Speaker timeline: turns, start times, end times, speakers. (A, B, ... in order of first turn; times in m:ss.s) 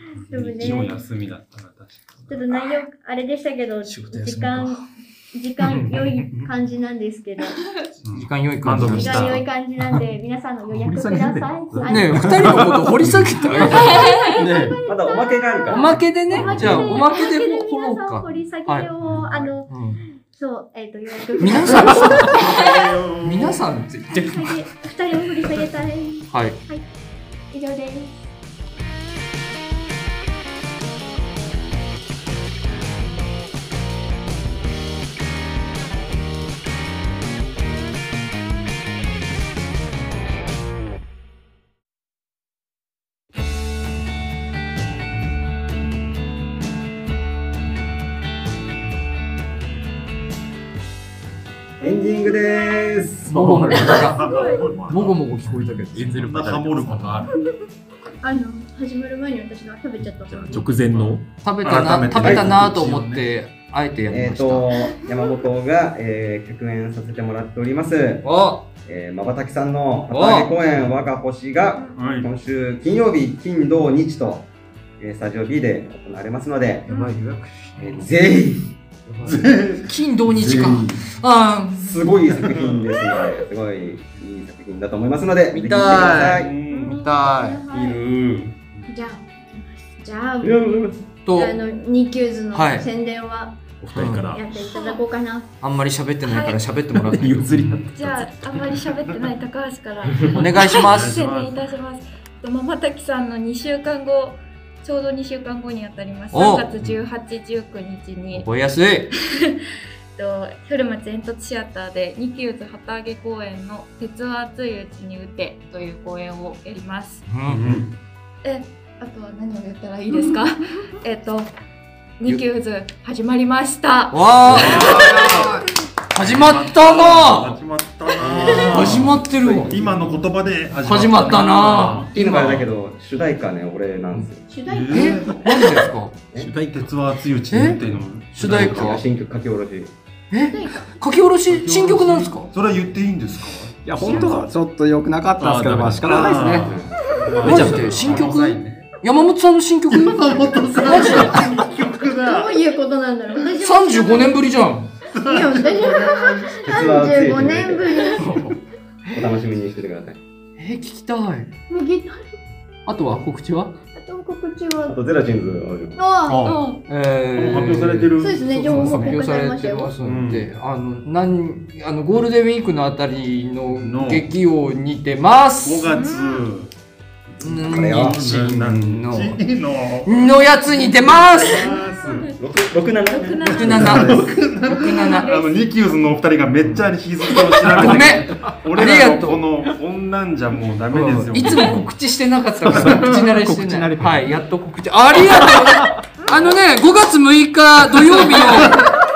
0:00.2-0:02.6 A
0:00.3-0:01.0 B
0:02.3-0:07.6 B
0:03.8-0:04.8 C
0:08.0-0:09.5 A
0:08.1-0:09.4 C
0:08.9-0:12.6 B
0:10.8-0:11.9 D
0:11.7-0:13.6 A
0:11.8-0:14.8 C
0:13.5-0:19.8 B
0:13.7-0:14.5 E
0:14.9-0:16.9 F
0:15.7-0:18.9 C
0:16.3-0:17.0 A
0:19.0-0:19.5 A
0:19.7-0:20.0 C
0:20.3-0:22.8 B
0:21.4-0:22.5 C
0:21.7-0:23.6 A
0:23.2-0:24.6 C
0:24.2-0:26.8 B
0:26.3-0:26.6 C
0:27.5-0:28.1 B
0:51.8-0:53.1 B
0:51.8-0:53.6 F
0:53.3-0:56.4 C
0:53.3-0:54.1 D
0:53.7-0:55.1 A
0:54.1-0:54.8 B
0:54.6-0:55.1 D
0:55.9-0:57.3 D
0:56.2-0:57.5 A
0:58.2-1:00.7 B
1:00.3-1:01.2 D
1:00.6-1:03.3 A
1:01.4-1:04.9 C
1:02.1-1:02.5 F
1:04.1-1:08.3 F
1:08.2-1:08.7 C
1:08.8-1:14.5 F
1:10.1-1:10.5 C
1:11.9-1:12.3 A
1:15.0-1:16.9 F
1:16.9-1:18.0 C
1:17.8-1:18.8 F
1:19.1-1:22.0 C
1:19.3-1:19.9 A
1:19.3-1:19.6 F
1:20.4-1:21.0 A
1:21.8-1:26.6 F
1:22.3-1:22.8 A
1:25.5-1:27.6 C
1:25.6-1:27.1 A
1:26.7-1:28.1 B
1:27.8-1:28.9 A
1:28.9-1:33.6 B
1:30.4-1:31.0 F
1:31.2-1:31.6 C
1:32.5-1:32.9 C
1:33.8-1:34.5 D
1:34.0-1:34.3 C
1:34.3-1:35.5 B
1:34.6-1:35.0 E
1:35.6-1:37.6 C
1:36.2-1:36.6 E
1:37.1-1:38.2 D
1:37.6-1:37.9 A
1:37.9-1:48.5 E
1:40.3-1:41.2 C
1:40.8-1:41.6 A
1:46.3-1:46.8 C
1:48.3-1:49.1 C
1:49.2-1:49.6 E
1:50.2-1:57.3 E
1:57.3-1:57.8 C
1:57.4-1:58.0 A
1:58.4-2:01.5 E
2:02.2-2:05.0 E
2:04.1-2:07.6 C
2:04.4-2:12.7 A
2:08.2-2:09.8 C
2:09.0-2:10.0 F
2:10.8-2:12.6 C
2:12.1-2:14.4 F
2:14.5-2:15.3 B
2:14.6-2:19.0 A
2:14.9-2:16.2 C
2:17.5-2:19.0 C
2:18.4-2:19.9 F
2:20.3-2:22.5 C
2:20.5-2:20.9 B
2:21.5-2:24.4 A
2:23.8-2:26.8 G
2:24.1-2:24.4 C
2:25.4-2:26.2 D
2:25.8-2:28.9 A
2:26.6-2:27.0 F
2:27.4-2:31.6 C
2:27.4-2:28.4 D
2:29.9-2:32.6 A
2:30.3-2:34.5 B
2:33.5-2:34.9 C
2:35.1-2:38.5 B
2:35.2-2:36.8 A
2:36.6-2:38.2 F
2:38.2-2:38.6 C
2:39.1-2:40.2 F
2:40.6-2:41.5 C
2:41.7-2:42.3 B
2:42.9-2:43.8 C
2:44.0-2:45.0 B
2:44.8-2:46.1 F
2:46.0-2:46.8 B
2:46.2-2:46.7 A
2:46.9-2:56.0 C
2:47.3-2:49.1 A
2:48.2-2:50.0 B
2:50.0-2:50.5 A
2:53.8-2:54.3 A
2:55.6-2:56.7 A
2:55.9-2:56.2 B
2:57.4-2:59.4 C
2:57.4-3:00.4 A
2:57.6-2:58.4 F
3:00.0-3:01.7 C
3:01.0-3:02.3 A
3:01.4-3:02.3 E
3:02.3-3:04.3 F
3:03.0-3:04.3 E
3:03.5-3:05.3 C
3:03.6-3:11.9 A
3:04.9-3:05.8 E
3:06.6-3:09.5 C
3:10.9-3:19.0 C
3:12.7-3:14.2 A
3:15.9-3:16.5 A
3:18.1-3:19.0 A